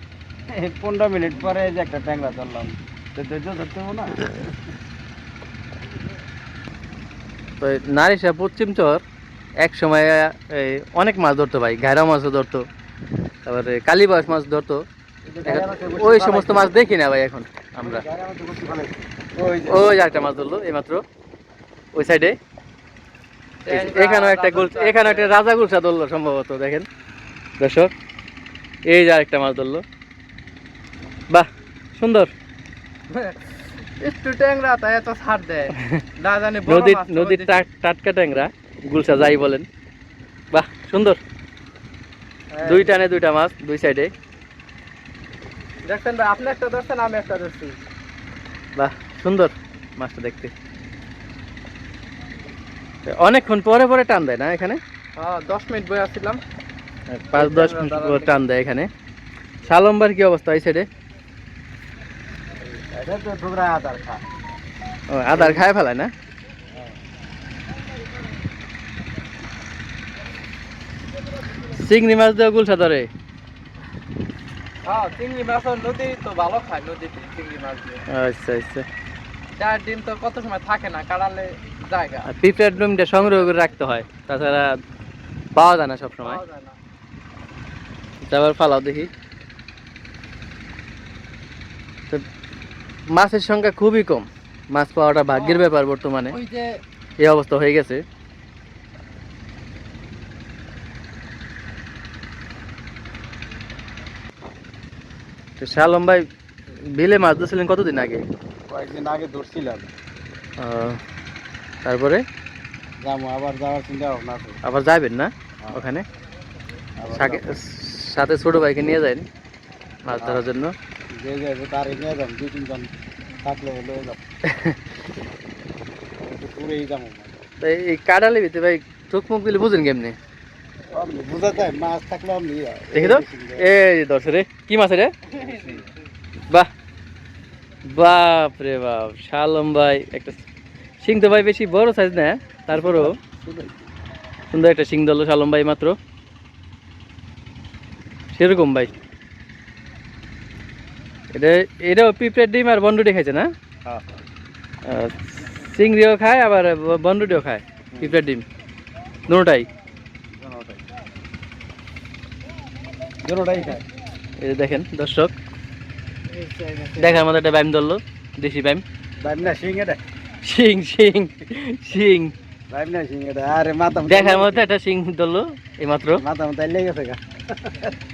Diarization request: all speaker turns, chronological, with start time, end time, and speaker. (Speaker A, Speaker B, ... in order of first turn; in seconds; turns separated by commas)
Speaker A: 0.5-4.3, Speaker B: 7.6-9.0, Speaker B: 9.6-12.7, Speaker B: 13.5-14.8, Speaker A: 15.2-16.7, Speaker B: 15.4-18.0, Speaker A: 17.8-19.8, Speaker B: 19.7-21.0, Speaker B: 21.9-22.4, Speaker C: 23.6-25.3, Speaker B: 23.7-26.9, Speaker B: 27.6-27.9, Speaker B: 28.9-29.8, Speaker B: 31.3-32.3, Speaker C: 33.1-37.6, Speaker B: 36.7-39.7, Speaker B: 40.5-41.2, Speaker C: 42.5-42.9, Speaker B: 42.6-44.1, Speaker C: 45.8-47.8, Speaker B: 48.8-50.5, Speaker B: 53.1-54.8, Speaker C: 55.2-56.4, Speaker B: 57.1-58.9, Speaker C: 57.3-58.4, Speaker B: 59.6-60.9, Speaker A: 62.9-64.3, Speaker B: 65.1-66.1, Speaker A: 65.3-65.6, Speaker B: 71.7-73.1, Speaker C: 74.8-78.0, Speaker B: 78.1-78.9, Speaker C: 79.6-82.3, Speaker B: 82.3-84.8, Speaker C: 83.2-83.5, Speaker B: 85.5-86.4, Speaker C: 86.2-86.8, Speaker B: 88.2-89.1, Speaker B: 93.1-96.4, Speaker C: 95.3-95.7, Speaker C: 96.3-96.8, Speaker B: 97.2-98.0, Speaker B: 105.6-106.3, Speaker B: 106.9-108.3, Speaker A: 108.7-109.9, Speaker B: 110.6-111.0, Speaker B: 111.8-112.2, Speaker A: 113.0-114.6, Speaker B: 114.6-116.0, Speaker A: 115.6-115.9, Speaker A: 117.0-117.5, Speaker B: 117.1-119.3, Speaker B: 120.0-120.7, Speaker A: 120.2-120.5, Speaker A: 121.1-124.2, Speaker B: 124.5-124.8, Speaker A: 126.2-127.4, Speaker B: 127.6-130.2, Speaker A: 130.9-133.7, Speaker B: 132.9-135.1, Speaker C: 135.3-135.9, Speaker A: 135.4-135.9, Speaker B: 137.9-140.4, Speaker B: 141.0-143.2, Speaker A: 142.7-143.8, Speaker B: 144.5-146.0, Speaker B: 148.3-148.9, Speaker B: 151.3-153.5, Speaker A: 153.8-154.2, Speaker B: 154.8-158.4, Speaker B: 159.3-159.7, Speaker A: 160.3-160.9, Speaker A: 163.2-163.8, Speaker B: 164.4-165.3, Speaker C: 166.3-167.3, Speaker B: 167.0-168.8, Speaker A: 169.2-170.0, Speaker B: 170.4-172.3, Speaker A: 172.7-174.7, Speaker B: 174.1-176.2, Speaker A: 176.2-177.9